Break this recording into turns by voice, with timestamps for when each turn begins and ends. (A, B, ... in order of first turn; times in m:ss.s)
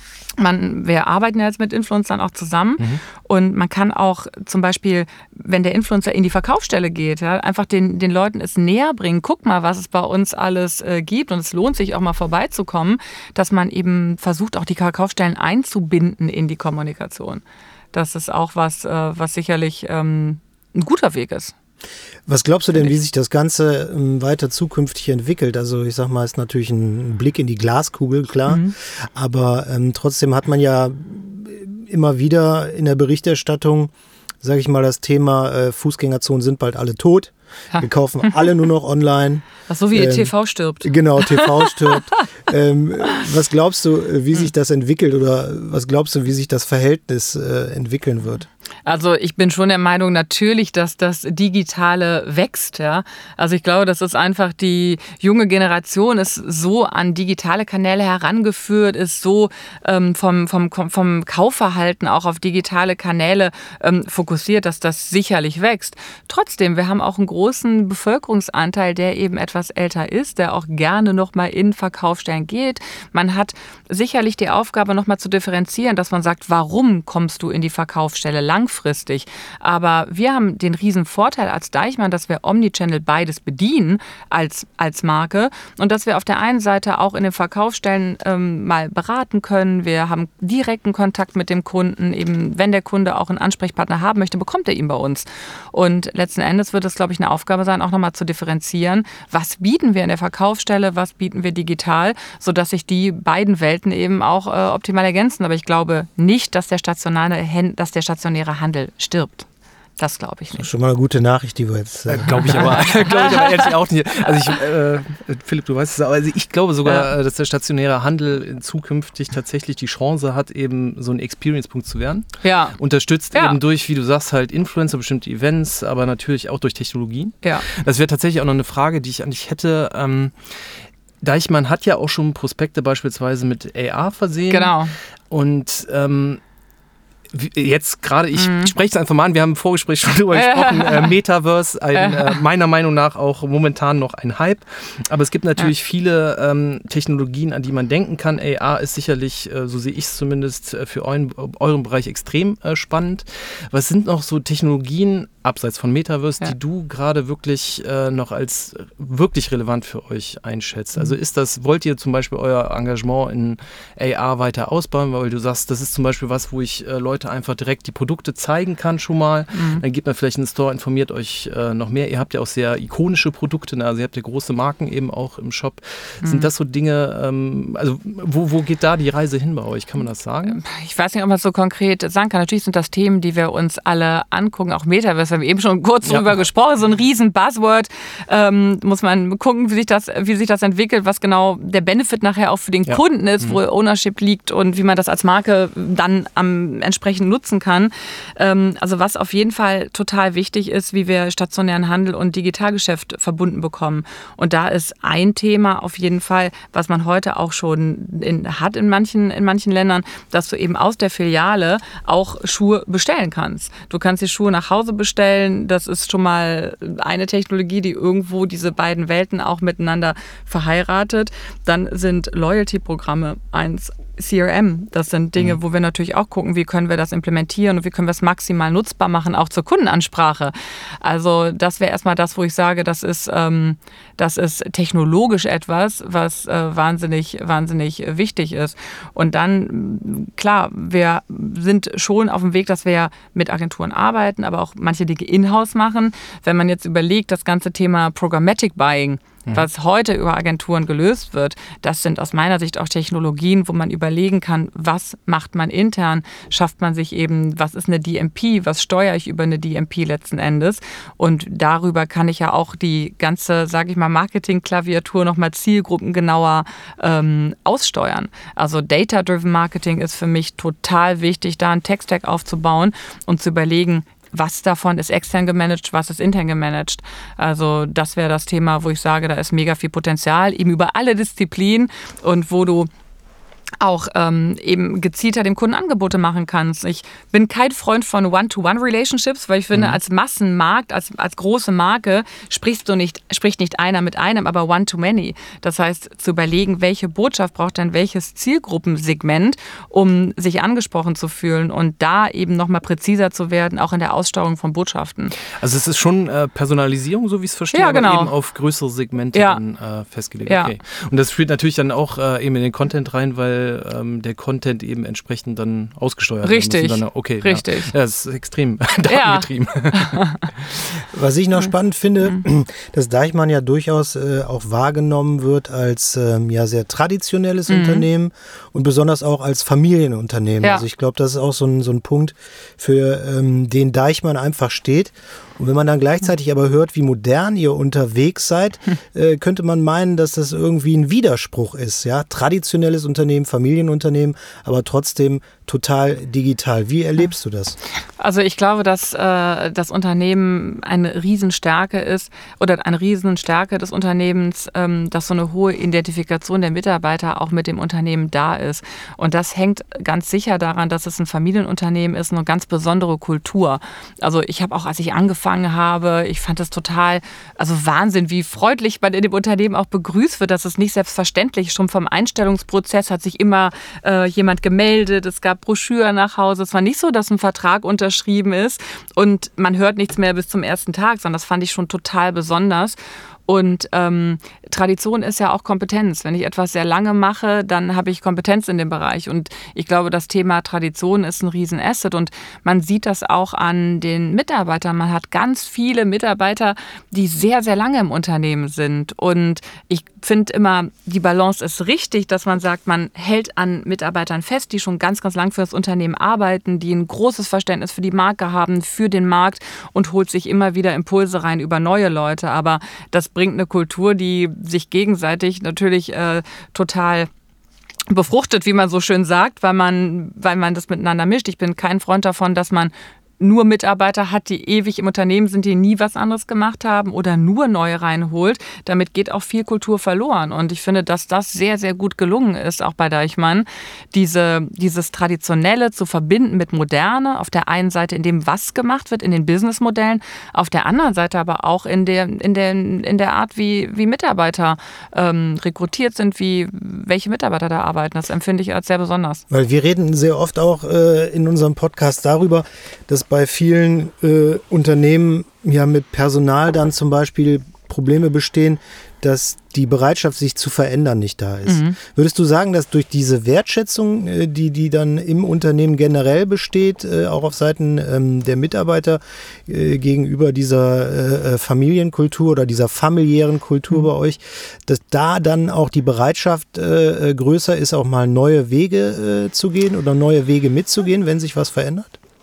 0:00.4-0:21.5 A
0:22.3-0:40.3 B
0:28.5-0:28.7 A
0:39.7-0:42.2 A
0:40.8-0:48.5 B
0:48.9-1:49.5 A
1:50.0-1:50.7 A
1:50.6-1:52.8 B
1:52.1-2:10.6 C
1:52.5-1:53.7 A
1:56.8-1:57.1 A
2:02.4-2:02.8 A
2:03.3-2:03.6 A
2:11.2-2:14.8 C
2:14.5-2:14.9 A
2:15.3-2:16.4 C
2:17.3-3:00.6 C
2:18.4-2:18.7 A
2:20.3-2:21.1 A
2:22.0-2:22.4 A
2:49.5-2:49.8 A
2:56.2-2:56.5 A
3:00.5-4:42.9 A
3:06.1-3:06.3 C
3:12.9-3:13.6 C
4:43.8-5:05.4 A
4:49.7-4:50.0 C
5:05.5-5:20.2 C
5:07.7-5:08.3 A
5:09.3-5:09.6 A
5:10.5-5:10.8 A
5:16.4-5:17.9 A
5:19.1-5:20.5 A
5:21.1-5:47.8 B
5:27.7-5:28.1 A
5:48.2-6:57.3 A
6:58.1-7:29.4 A
7:29.5-8:02.2 B
7:41.7-7:42.0 A